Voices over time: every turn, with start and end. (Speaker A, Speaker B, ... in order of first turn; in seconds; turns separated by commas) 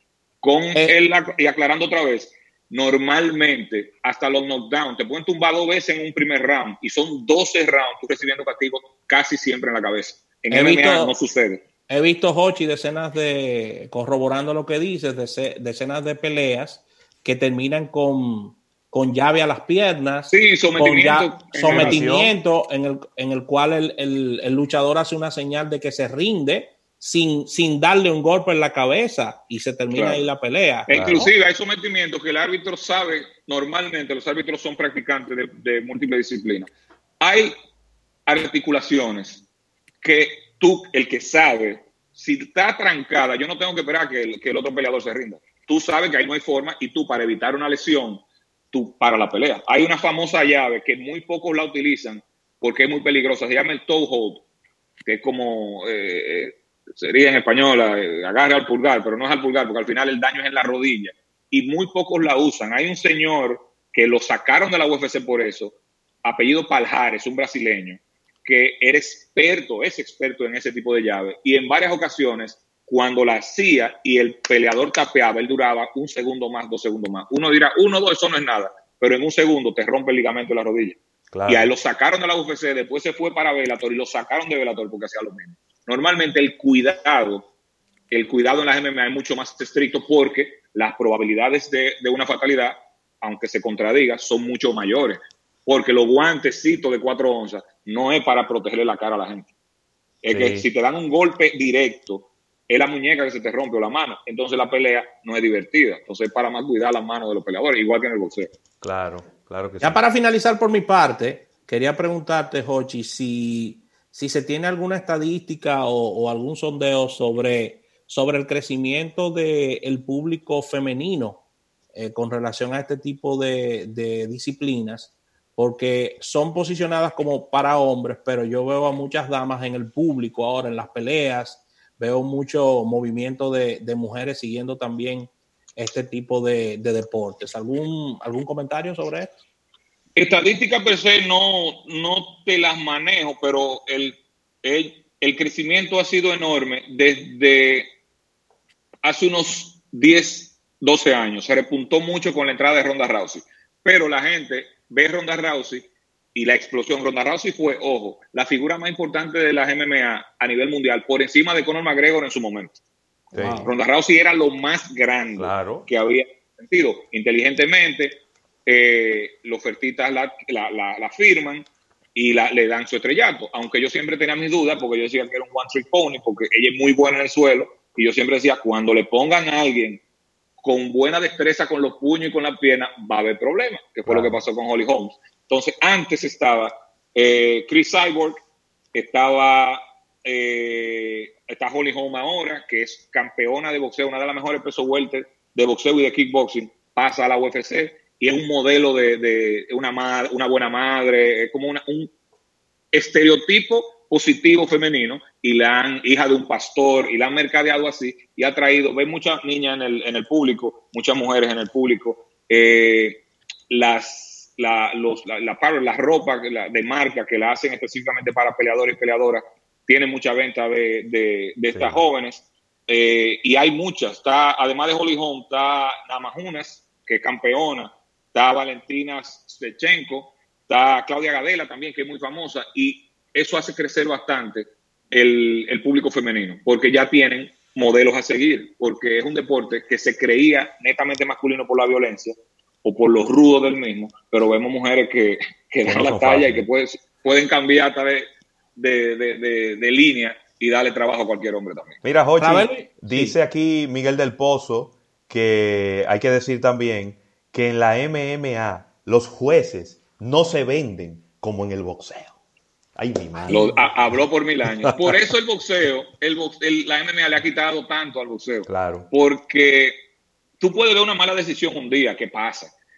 Speaker A: 0.4-11.6, Speaker B: 10.5-11.1, Speaker B: 11.9-31.3, Speaker A: 20.3-22.1, Speaker C: 21.7-22.4, Speaker A: 29.9-30.3, Speaker A: 30.9-36.7, Speaker C: 30.9-31.3, Speaker A: 37.2-37.5, Speaker A: 38.3-39.5, Speaker A: 40.0-54.4, Speaker A: 55.1-87.5, Speaker C: 81.3-81.7, Speaker A: 88.1-99.5, Speaker A: 100.2-108.5, Speaker C: 100.3-100.7, Speaker C: 108.8-110.0, Speaker B: 109.8-139.4, Speaker A: 140.2-147.9, Speaker A: 149.0-162.8, Speaker B: 163.3-163.7, Speaker C: 163.3-163.7, Speaker A: 163.6-180.0, Speaker C: 165.4-165.9, Speaker A: 180.6-188.4, Speaker C: 184.1-184.4, Speaker A: 188.9-202.1, Speaker A: 202.9-252.0, Speaker C: 221.7-222.0, Speaker C: 245.9-246.7, Speaker C: 252.0-262.4, Speaker B: 252.4-253.4, Speaker C: 263.0-264.1, Speaker A: 263.5-270.0, Speaker C: 268.7-269.1, Speaker A: 270.6-272.7